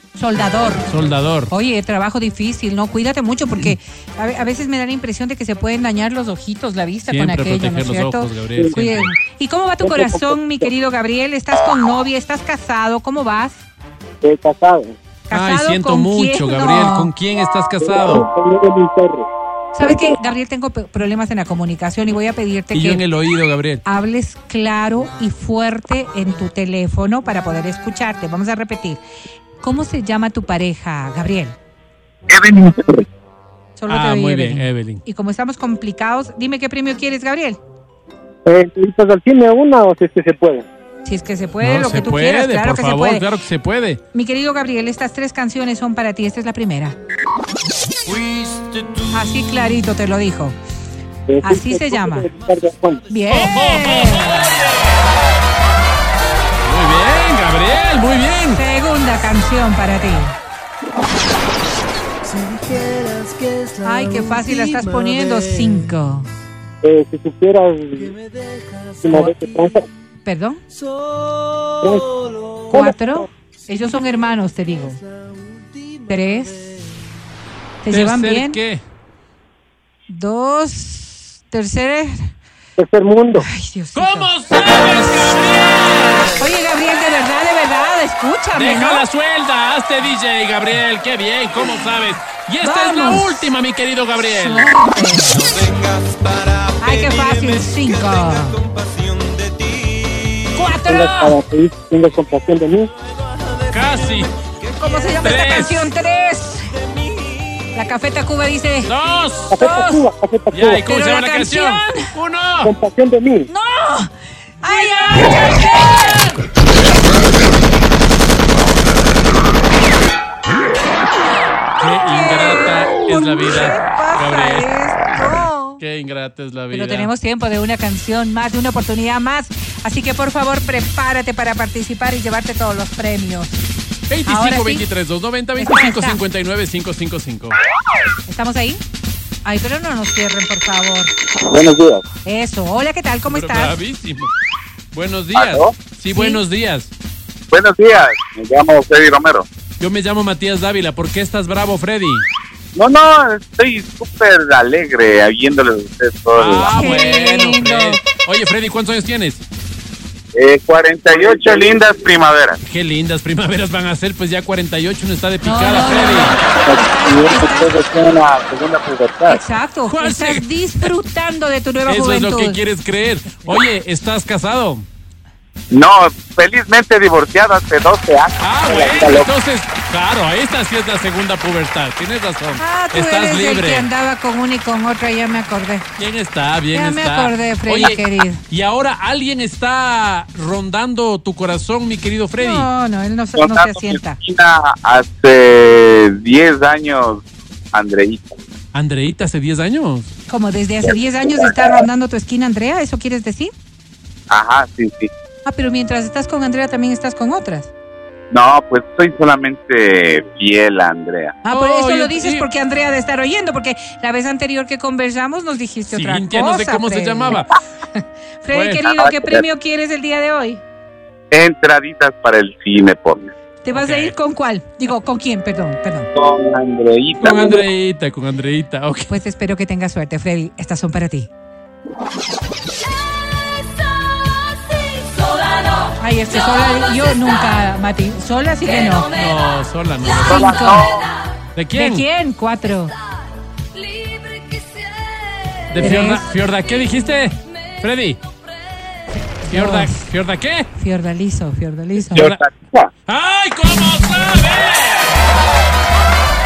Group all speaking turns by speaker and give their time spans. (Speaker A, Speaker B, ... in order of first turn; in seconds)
Speaker A: 0.1-0.8, 1.5-13.6, 15.3-17.1, 19.7-23.0, 23.8-29.0, 29.6-31.6, 33.8-37.6, 41.0-43.3, 44.1-47.0, 49.1-50.6, 51.4-52.3, 53.1-54.5, 58.5-60.3, 63.7-66.3, 69.1-69.3, 70.2-70.6, 72.7-75.0, 76.1-76.8, 77.8-78.6, 80.1-82.3, 83.4-84.3, 86.4-89.0, 92.6-93.3, 94.3-95.4, 96.8-98.6, 100.5-101.4, 104.7-106.8, 107.7-108.9, 109.5-110.0, 110.8-112.1, 113.5-116.3, 122.0-125.8, 126.7-133.6, 134.2-134.8, 135.6-136.2, 138.3-138.8, 139.4-141.1, 142.2-143.7, 146.1-146.4, 156.7-158.0, 165.4-167.7, 169.3-172.6, 182.6-185.9, 186.7-188.4, 192.4-194.2, 200.3-203.5, 205.4-207.7, 211.4-217.4, 217.9-220.6, 223.6-226.1, 229.1-231.3, 236.0-239.1, 240.2-240.9, 241.7-242.9, 245.8-246.2, 249.4-250.1, 250.7-252.3
Speaker B: 0.9-1.5, 7.0-9.1, 15.3-18.2, 22.7-23.8, 33.9-35.0, 41.6-44.0, 53.3-55.0, 56.6-58.6, 77.9-78.8, 83.9-86.4, 88.5-94.7, 103.7-104.3, 105.2-105.9, 108.8-109.5, 110.5-112.7, 121.8-124.7, 125.8-127.1, 134.1-137.6, 143.2-144.3, 144.9-146.9, 149.8-152.2, 156.3-159.4, 162.6-166.4, 169.9-170.9, 171.8-174.8, 178.4-183.9, 186.0-192.7, 198.7-200.1, 211.5-212.5, 215.9-217.5, 218.5-218.9, 223.7-224.1, 227.2-229.1, 239.1-240.6, 241.5-242.0, 245.7-248.2, 249.5-250.7, 252.1-252.4, 253.1-255.3
Speaker C: 9.8-10.7, 14.2-14.9, 17.8-19.3, 38.5-40.6, 51.3-53.1, 66.8-68.1, 69.0-69.8, 71.8-72.1, 72.7-73.2, 82.8-83.5, 100.8-102.9, 109.5-110.8, 112.6-113.5
Speaker D: 32.3-33.0, 141.5-142.0, 145.3-145.7, 147.5-149.5, 152.7-156.8, 160.3-162.6, 166.6-169.4, 175.7-179.3, 193.3-198.4, 204.3-205.1, 208.3-211.3, 218.9-219.4, 221.3-223.3, 226.1-227.6, 240.2-241.1, 252.1-252.9